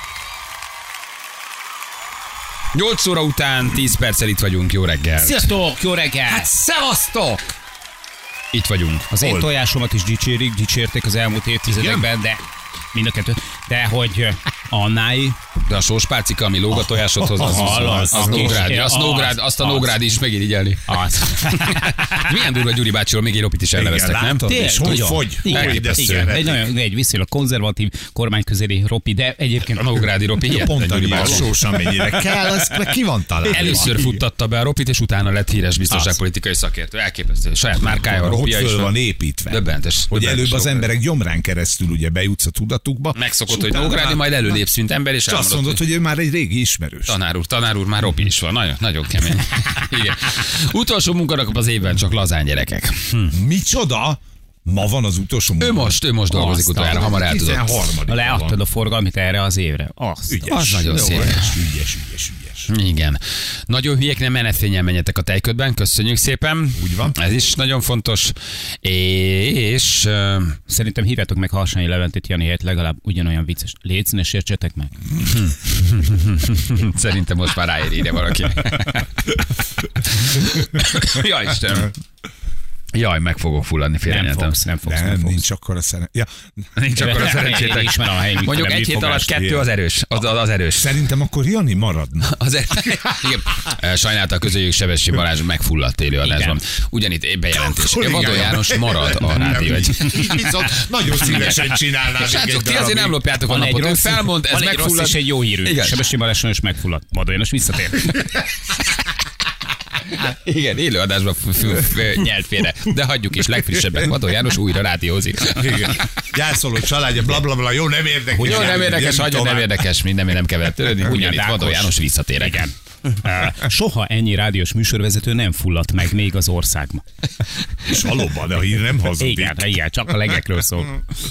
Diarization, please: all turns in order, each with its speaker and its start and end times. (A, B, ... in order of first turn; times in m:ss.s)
0:02.7-0:05.5 A
0:05.2-0:06.5 B
0:06.3-0:07.5 C
0:08.5-0:09.2 A
0:09.1-0:12.4 B
0:09.2-0:09.5 C
0:11.7-0:12.1 A
0:12.9-0:15.4 B
0:15.6-0:26.4 A
0:16.7-0:18.7 C
0:17.4-0:20.1 B
0:20.8-0:22.2 B
0:23.7-0:26.7 C
0:24.4-0:30.1 B
0:29.7-0:32.1 A
0:30.5-0:34.2 C
0:33.4-0:39.0 A
0:35.9-0:36.2 C
0:38.1-0:44.6 C
0:39.4-0:40.9 A
0:43.1-0:45.8 A
0:45.2-0:47.1 C
0:47.0-0:53.4 A
0:53.3-0:56.0 C
0:55.6-0:57.9 A
0:56.3-0:57.1 B
0:56.6-0:58.6 C
0:58.1-1:00.7 B
1:00.3-1:02.7 C
1:00.5-1:01.6 A
1:02.7-1:10.6 A
1:06.8-1:07.2 C
1:10.7-1:14.9 B
1:15.2-1:21.9 A
1:22.9-1:24.6 A
1:24.1-1:25.4 B
1:24.9-1:26.3 C
1:26.8-1:30.9 A
1:27.0-1:29.3 B
1:29.3-1:29.7 C
1:30.8-1:33.1 C
1:32.3-1:46.1 A
1:36.2-1:36.6 B
1:37.5-1:43.2 C
1:39.5-1:39.9 B
1:43.4-1:48.2 B
1:48.1-1:48.4 A
1:50.1-1:56.1 A
1:53.8-1:54.1 C
1:55.6-1:59.8 C
1:58.4-2:02.7 A
2:01.0-2:07.0 B
2:07.9-2:09.7 C
2:09.2-2:11.0 B